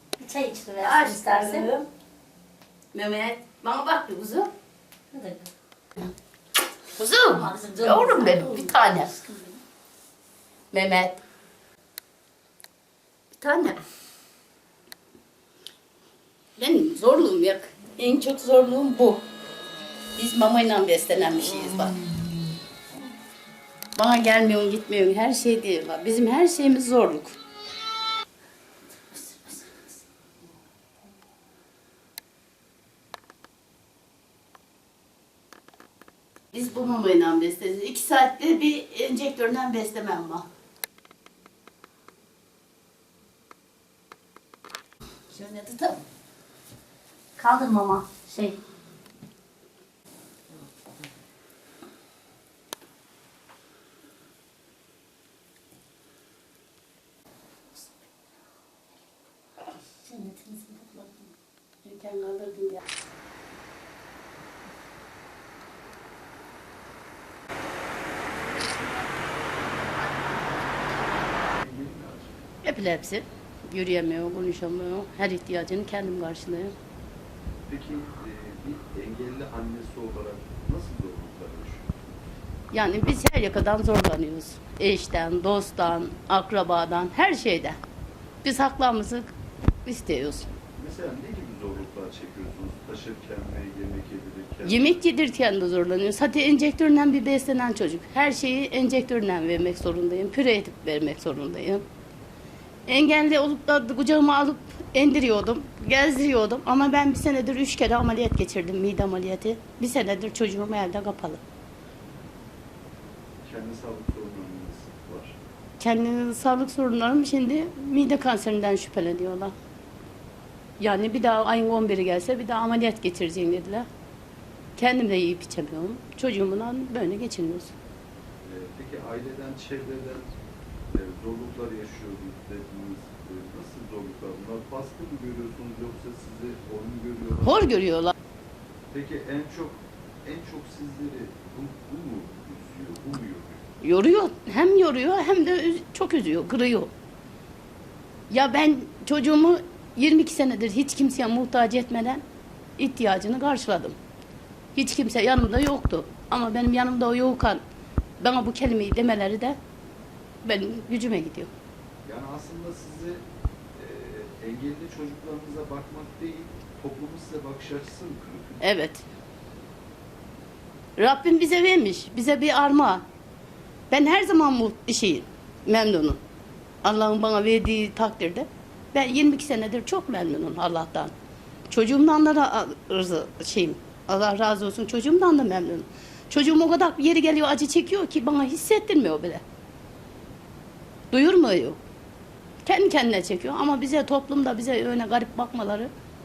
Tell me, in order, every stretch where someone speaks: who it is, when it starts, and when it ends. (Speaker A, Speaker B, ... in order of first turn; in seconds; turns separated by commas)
Speaker A: 0.2-1.7, Speaker B: 0.8-1.8, Speaker B: 2.9-4.5, Speaker A: 5.1-5.5, Speaker B: 7.0-9.1, Speaker A: 7.2-9.6, Speaker B: 10.7-11.2, Speaker B: 13.4-13.8, Speaker B: 16.6-19.2, Speaker B: 20.1-22.1, Speaker B: 23.9-27.4, Speaker A: 29.1-29.9, Speaker B: 36.5-40.5, Speaker B: 45.3-46.0, Speaker A: 47.4-48.6, Speaker A: 60.0-61.3, Speaker B: 61.8-62.8, Speaker C: 71.4-72.3, Speaker B: 72.6-76.7, Speaker C: 77.7-81.9, Speaker B: 82.7-87.8, Speaker B: 88.4-89.3, Speaker B: 89.8-90.5, Speaker C: 90.8-95.0, Speaker B: 94.6-101.8, Speaker B: 102.9-111.4, Speaker C: 113.4-115.3, Speaker B: 115.8-119.5, Speaker B: 120.8-123.8, Speaker B: 124.8-127.7, Speaker C: 128.4-130.3, Speaker C: 130.9-137.8, Speaker B: 137.4-138.1, Speaker C: 138.9-143.6, Speaker B: 143.8-146.9, Speaker B: 148.3-152.2, Speaker B: 152.8-153.9, Speaker B: 154.7-157.6, Speaker B: 158.2-159.6, Speaker B: 160.4-161.5, Speaker C: 162.0-168.6, Speaker B: 168.6-169.0, Speaker B: 171.0-173.0, Speaker B: 173.9-176.2, Speaker B: 176.8-181.1, Speaker B: 181.7-189.4, Speaker B: 191.1-191.8, Speaker B: 192.6-195.9